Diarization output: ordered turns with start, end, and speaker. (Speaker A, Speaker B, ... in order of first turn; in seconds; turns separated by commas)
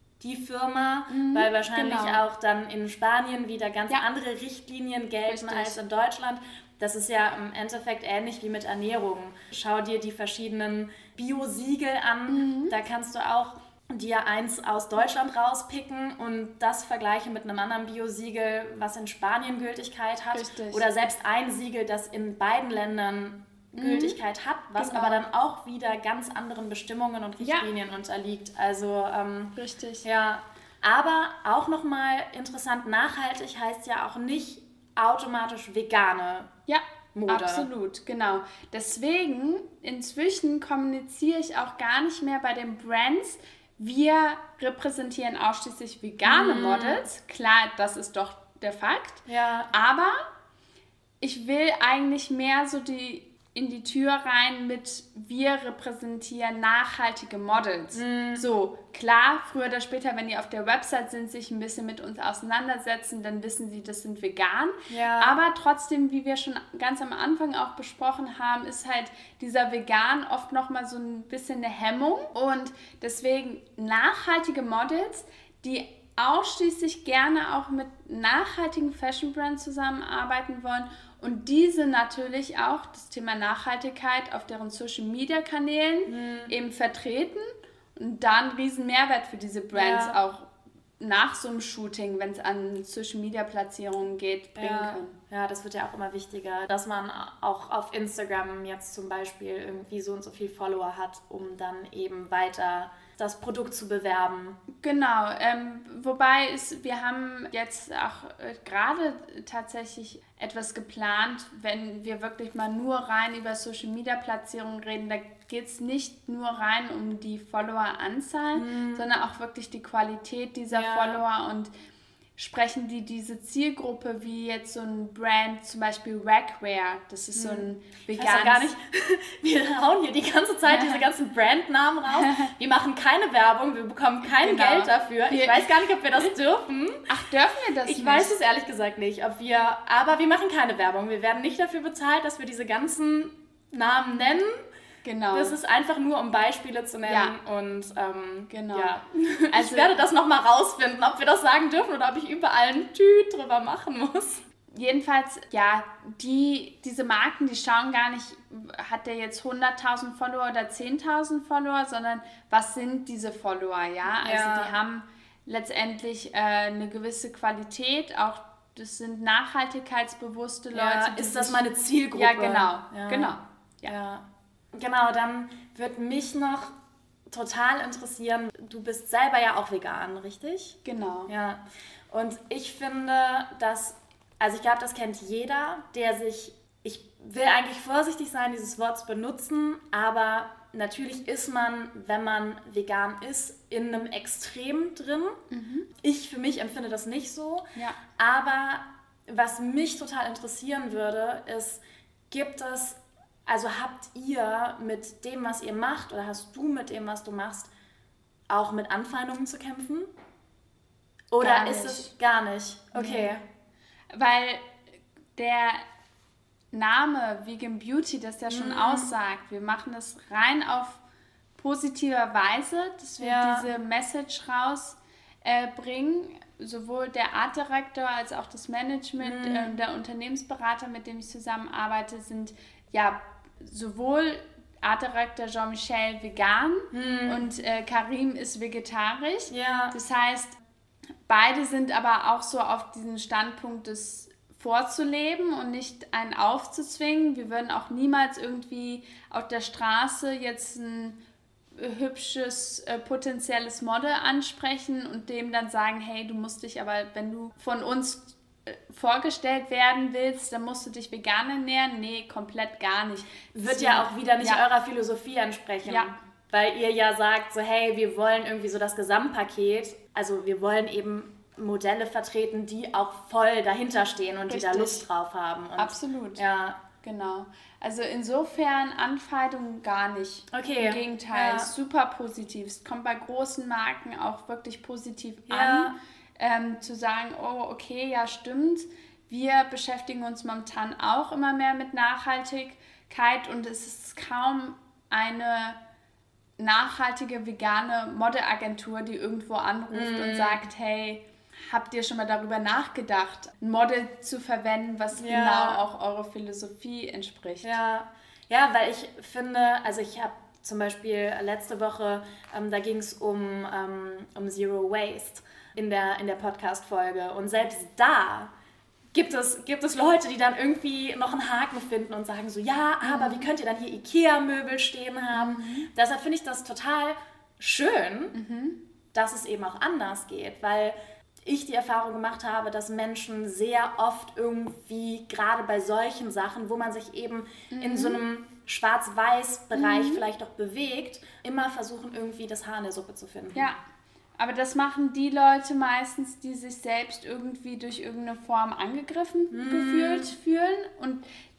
Speaker A: 0.2-36.5, Speaker B: 1.1-2.2, Speaker B: 5.3-5.8, Speaker B: 12.3-12.8, Speaker B: 20.3-20.8, Speaker B: 23.8-24.2, Speaker B: 24.8-25.2, Speaker B: 27.4-27.7, Speaker B: 29.6-30.1, Speaker B: 36.7-50.3, Speaker A: 37.1-37.7, Speaker A: 46.2-47.0, Speaker A: 49.3-49.7, Speaker B: 51.2-90.5, Speaker A: 57.9-58.4, Speaker A: 64.9-65.4, Speaker A: 86.1-86.5, Speaker A: 89.7-90.2, Speaker B: 91.0-95.2, Speaker A: 94.6-104.6, Speaker B: 104.8-121.7, Speaker A: 118.5-119.1, Speaker A: 120.7-121.2, Speaker B: 122.4-128.7, Speaker A: 127.3-137.1, Speaker B: 130.7-131.1, Speaker B: 132.1-132.5, Speaker B: 134.3-135.7, Speaker B: 137.1-138.4, Speaker A: 137.9-144.5, Speaker B: 145.0-145.6, Speaker A: 145.3-154.4, Speaker B: 147.1-147.3, Speaker B: 148.5-149.0, Speaker B: 149.5-149.9, Speaker B: 154.7-171.6, Speaker A: 164.2-164.8, Speaker A: 170.7-173.3, Speaker B: 172.1-173.9, Speaker A: 173.9-176.7, Speaker A: 177.3-180.8, Speaker B: 180.8-181.3, Speaker A: 181.3-195.4, Speaker B: 195.5-195.9, Speaker A: 196.0-207.7, Speaker A: 208.5-210.1, Speaker A: 211.3-213.4, Speaker B: 211.4-212.1, Speaker B: 212.9-213.3, Speaker B: 214.1-214.7, Speaker B: 215.4-215.8, Speaker B: 216.7-221.0, Speaker A: 218.5-219.1, Speaker B: 221.6-240.6, Speaker A: 223.2-223.7, Speaker A: 229.2-229.8, Speaker A: 236.9-237.4, Speaker A: 239.5-239.9, Speaker B: 241.3-251.2, Speaker B: 251.8-264.6, Speaker A: 263.6-276.8, Speaker B: 265.9-266.1, Speaker B: 274.5-275.1, Speaker B: 275.8-276.4, Speaker B: 277.0-295.8, Speaker A: 280.5-281.7, Speaker A: 285.5-286.0, Speaker B: 296.6-307.8, Speaker A: 299.9-300.6, Speaker A: 305.2-305.8, Speaker A: 307.6-318.5, Speaker A: 319.1-328.4, Speaker B: 323.1-323.5, Speaker B: 325.3-325.9, Speaker B: 328.3-328.8, Speaker A: 329.1-343.7, Speaker B: 337.7-338.2, Speaker B: 339.7-340.2, Speaker B: 344.4-351.2, Speaker A: 349.5-350.3